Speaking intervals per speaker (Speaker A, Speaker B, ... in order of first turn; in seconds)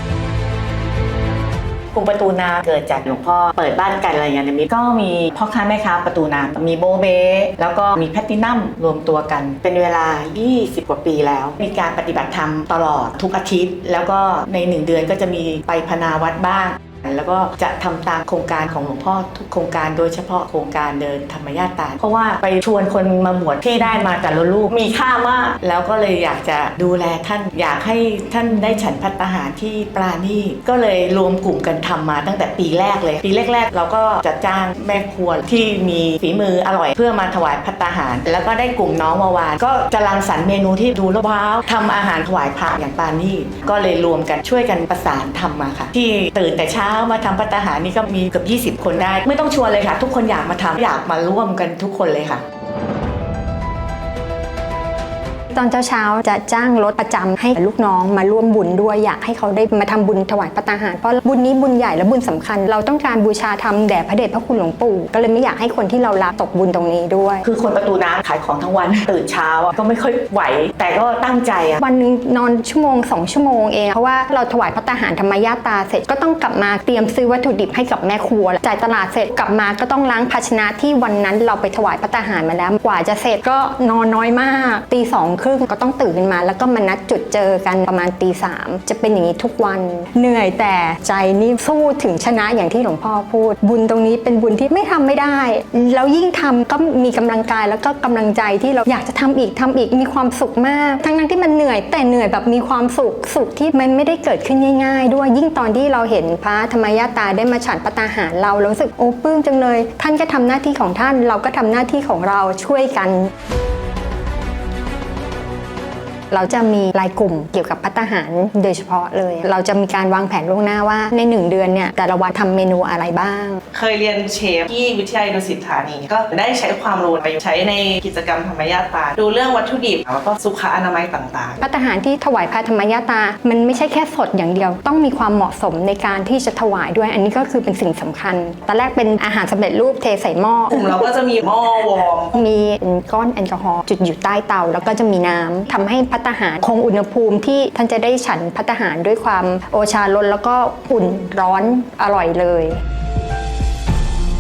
Speaker A: 1.9-52.4, 67.4-71.8
Speaker B: 55.5-67.5, 71.8-113.3, 116.3-123.6, 131.6-140.9, 142.3-152.8
Speaker C: 123.7-131.6, 140.7-142.3